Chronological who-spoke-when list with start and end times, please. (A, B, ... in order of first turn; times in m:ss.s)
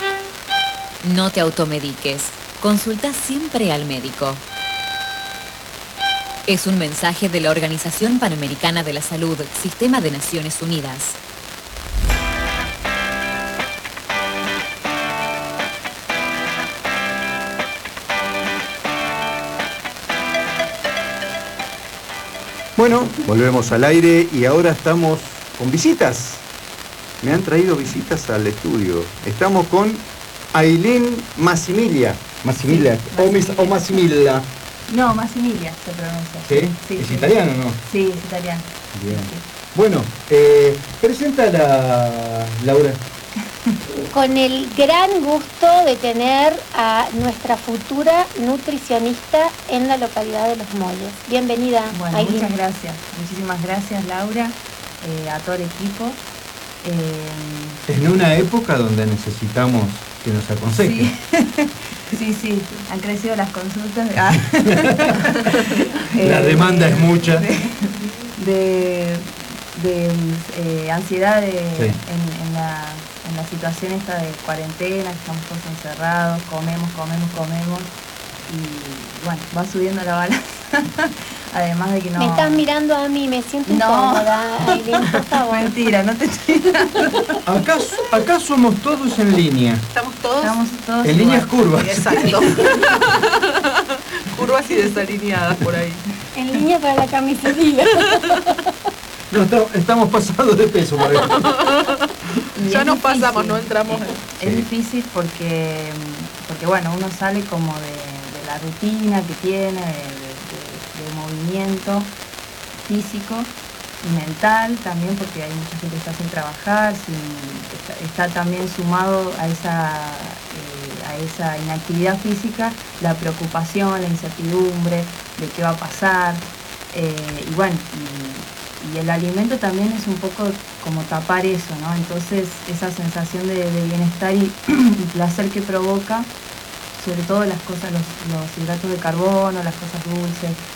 0:01.0-0:04.4 A
0:06.5-0:11.2 A
0:22.8-0:26.4 B
0:27.2-0:34.5 B
0:32.7-0:34.1 C
0:34.9-0:39.4 C
0:36.5-0:37.8 B
0:38.9-0:43.0 B
0:44.1-0:52.5 D
0:51.9-0:56.2 C
0:56.8-0:57.8 C
0:57.9-1:01.1 B
1:00.8-1:17.9 C
1:04.8-1:05.2 B
1:06.2-1:07.5 B
1:18.5-1:22.6 C
1:22.2-1:25.7 D
1:23.7-1:27.4 C
1:27.5-1:29.8 B
1:29.9-1:30.6 E
1:30.4-1:31.6 C
1:31.0-1:32.3 B
1:31.6-1:33.6 E
1:32.2-1:32.7 C
1:34.3-1:36.0 E
1:36.3-1:38.6 D
1:39.3-1:41.5 B
1:41.5-1:41.8 E
1:42.6-1:52.1 C
1:42.7-1:44.2 E
1:52.9-1:53.5 C
1:54.0-2:16.3 C
2:17.0-2:20.6 C